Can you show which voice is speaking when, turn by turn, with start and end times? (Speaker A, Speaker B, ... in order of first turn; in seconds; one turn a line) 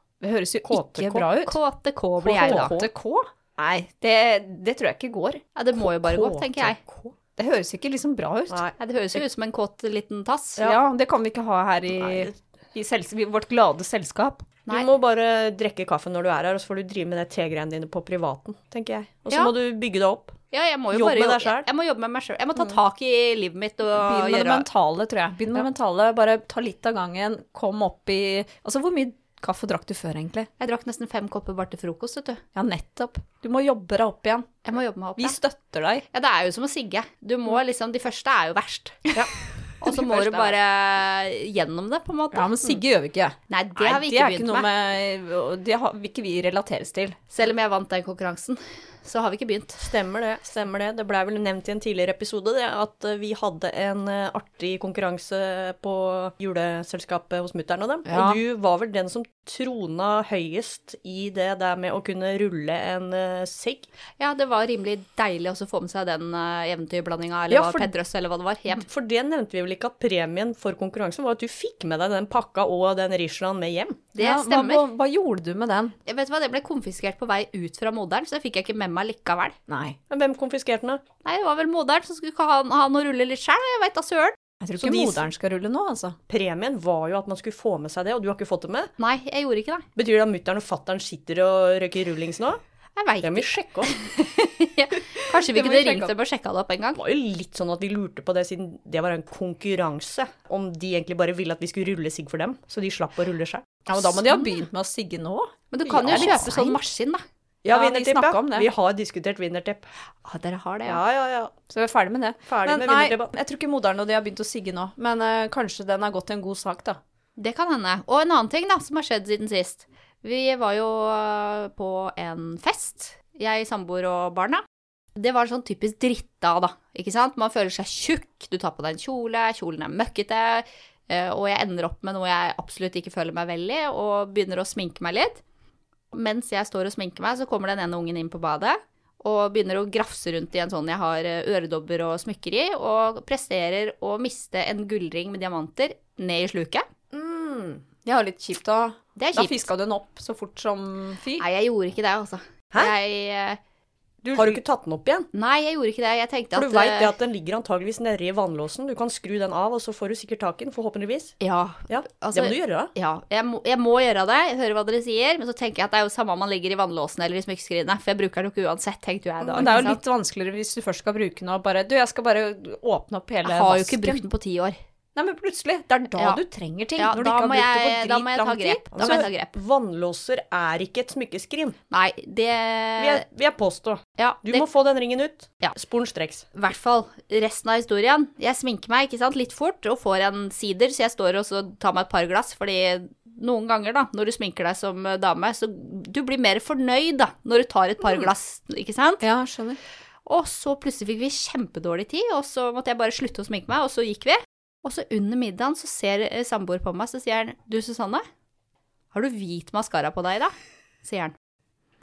Speaker A: 0.2-1.6
Speaker B: 0.7-1.3
Speaker C: 1.4-2.8
Speaker B: 2.2-2.9
Speaker A: 2.4-5.4
Speaker C: 5.6-6.8
Speaker B: 5.8-7.2
Speaker A: 7.4-8.7
Speaker B: 8.5-8.8
Speaker C: 8.8-10.7
Speaker A: 10.6-14.5
Speaker B: 12.0-12.3
Speaker B: 14.7-20.4
Speaker C: 20.5-24.7
Speaker B: 20.9-21.7
Speaker A: 23.9-30.5
Speaker C: 30.6-32.4
Speaker A: 32.5-34.5
Speaker C: 34.6-35.4
Speaker A: 35.2-36.0
Speaker C: 36.1-39.1
Speaker C: 39.8-42.5
Speaker A: 39.9-40.5
Speaker A: 42.3-47.2
Speaker C: 43.5-44.7
Speaker C: 47.3-49.9
Speaker B: 49.8-63.9
Speaker A: 58.1-58.4
Speaker C: 64.2-68.8
Speaker B: 67.5-67.9
Speaker B: 68.8-74.1
Speaker C: 74.2-74.8
Speaker A: 74.2-76.0
Speaker C: 76.1-79.6
Speaker A: 79.7-80.0
Speaker B: 80.1-81.0
Speaker C: 81.2-84.4
Speaker A: 84.6-86.2
Speaker B: 84.8-85.2
Speaker B: 86.3-88.9
Speaker C: 89.0-89.9
Speaker B: 90.0-92.6
Speaker C: 93.0-97.0
Speaker B: 93.2-93.9
Speaker A: 95.3-96.1
Speaker B: 97.0-104.0
Speaker A: 103.9-106.8
Speaker C: 105.7-107.2
Speaker B: 106.0-106.4
Speaker A: 107.7-108.7
Speaker B: 107.7-109.9
Speaker C: 110.2-111.0
Speaker B: 110.9-111.5
Speaker A: 111.7-117.0
Speaker B: 112.5-113.3
Speaker C: 117.4-124.6
Speaker C: 125.2-135.4
Speaker C: 136.1-146.9
Speaker B: 147.1-147.8
Speaker A: 148.0-151.4
Speaker C: 149.2-149.7
Speaker C: 151.4-153.6
Speaker A: 154.2-154.6
Speaker B: 154.3-155.3
Speaker C: 155.3-157.2
Speaker B: 156.5-161.4
Speaker C: 161.4-170.0
Speaker B: 161.9-162.9
Speaker B: 169.4-169.9
Speaker A: 169.6-174.2
Speaker C: 173.4-174.8
Speaker A: 175.2-179.3
Speaker C: 176.2-176.4
Speaker C: 177.0-179.6
Speaker B: 178.9-181.8
Speaker C: 181.9-183.2
Speaker B: 183.0-186.4
Speaker C: 184.2-184.7
Speaker C: 186.5-199.2
Speaker A: 199.2-199.8
Speaker C: 200.3-208.2
Speaker C: 209.1-210.5
Speaker C: 211.0-211.3